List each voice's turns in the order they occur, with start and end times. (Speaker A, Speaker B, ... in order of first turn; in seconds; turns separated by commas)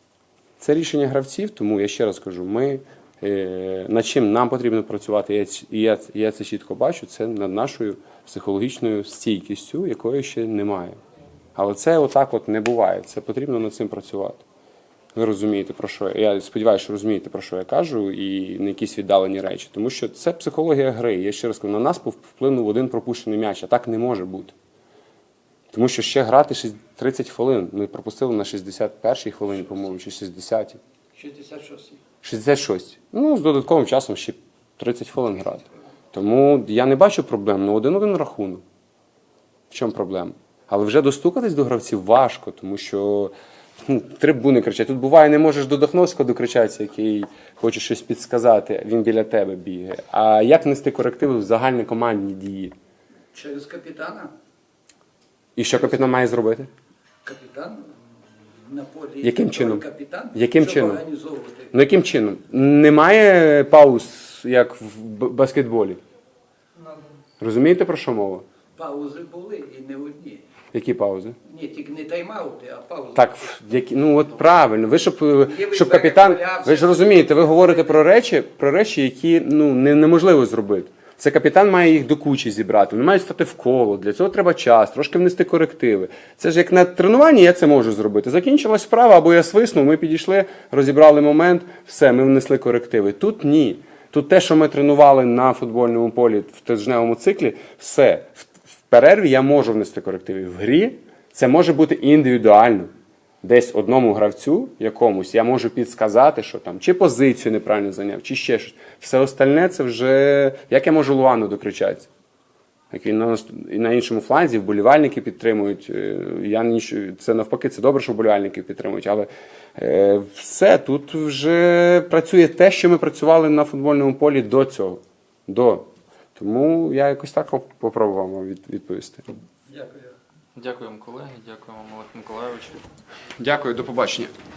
Speaker A: 0.6-11.0, Speaker A: 11.6-14.4, Speaker A: 15.2-24.6, Speaker A: 25.7-30.8, Speaker B: 31.1-32.0, Speaker A: 32.2-38.6, Speaker A: 39.7-52.8, Speaker B: 53.3-54.3, Speaker A: 55.6-56.7, Speaker B: 57.2-61.7, Speaker A: 59.2-61.0, Speaker A: 61.7-66.0, Speaker A: 67.4-68.5, Speaker B: 68.8-70.5, Speaker A: 70.7-71.4, Speaker B: 71.5-73.5, Speaker A: 73.1-112.1, Speaker B: 75.4-78.2, Speaker A: 112.9-129.3, Speaker B: 129.7-130.2, Speaker C: 130.6-132.8, Speaker A: 133.4-134.3